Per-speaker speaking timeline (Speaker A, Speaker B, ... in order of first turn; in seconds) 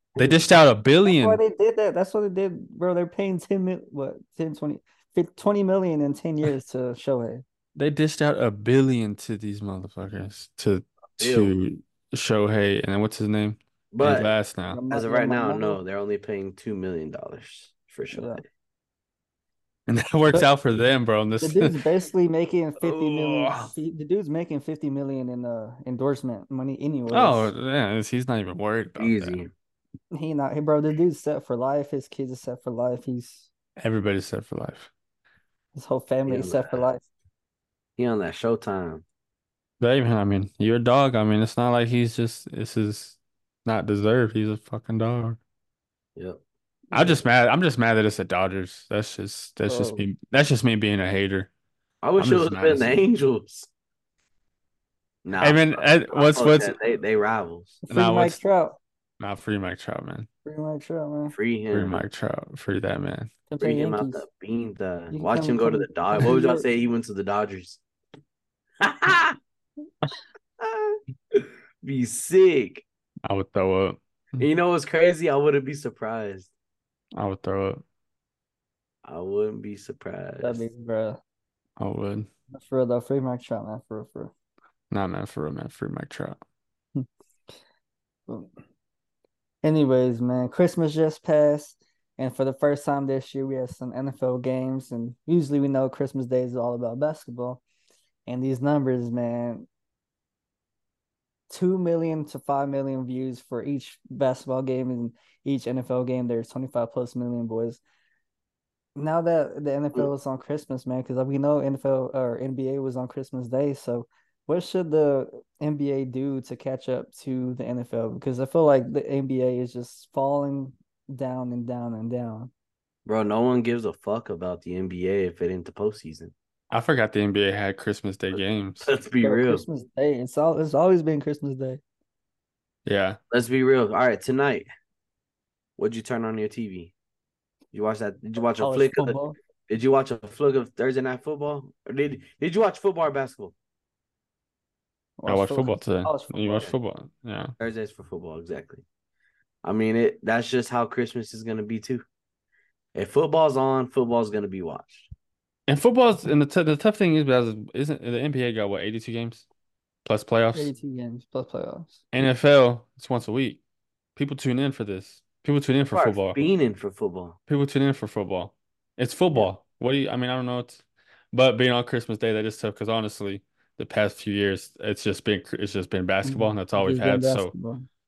Speaker A: 0.2-1.4, 7.8-14.8, 19.9-21.8, 27.1-29.4, 33.8-34.9, 39.8-45.4, 46.9-51.5, 52.2-53.0, 55.4-56.8, 57.9-58.4, 59.2-60.3, 61.7-63.3, 73.2-74.5, 77.2-77.8, 81.8-82.3, 84.9-86.4, 126.7-128.9, 132.9-133.2, 145.3-147.5, 155.7-159.5, 160.1-160.7, 162.1-163.6, 164.2-166.4, 167.5-177.5
Speaker B: 1.1-7.4, 14.7-15.8, 18.1-18.4, 21.4-27.5, 30.1-33.5, 35.7-37.0, 46.9-47.2, 49.7-50.0, 57.9-58.8, 60.5-61.4, 63.5-64.2, 65.1-66.7, 80.4-81.2, 82.5-84.3, 89.6-97.6, 98.3-99.7, 101.5-107.8, 109.0-122.5, 129.2-131.8, 138.6-139.3, 145.2-146.7, 160.5-162.1, 176.2-177.9
Speaker C: 11.2-11.5, 13.9-14.3, 14.9-18.4, 22.8-23.7, 29.0-29.5, 36.3-36.9, 38.0-39.0, 52.0-53.7, 55.2-57.8, 61.3-62.0, 63.6-67.8, 68.8-69.4, 70.6-72.8, 74.4-76.5, 79.0-80.7, 123.1-126.3, 128.3-129.6, 133.3-134.7, 135.8-136.9, 137.7-139.2, 139.7-143.6, 147.6-148.8, 149.6-152.0, 152.9-155.1, 165.9-167.4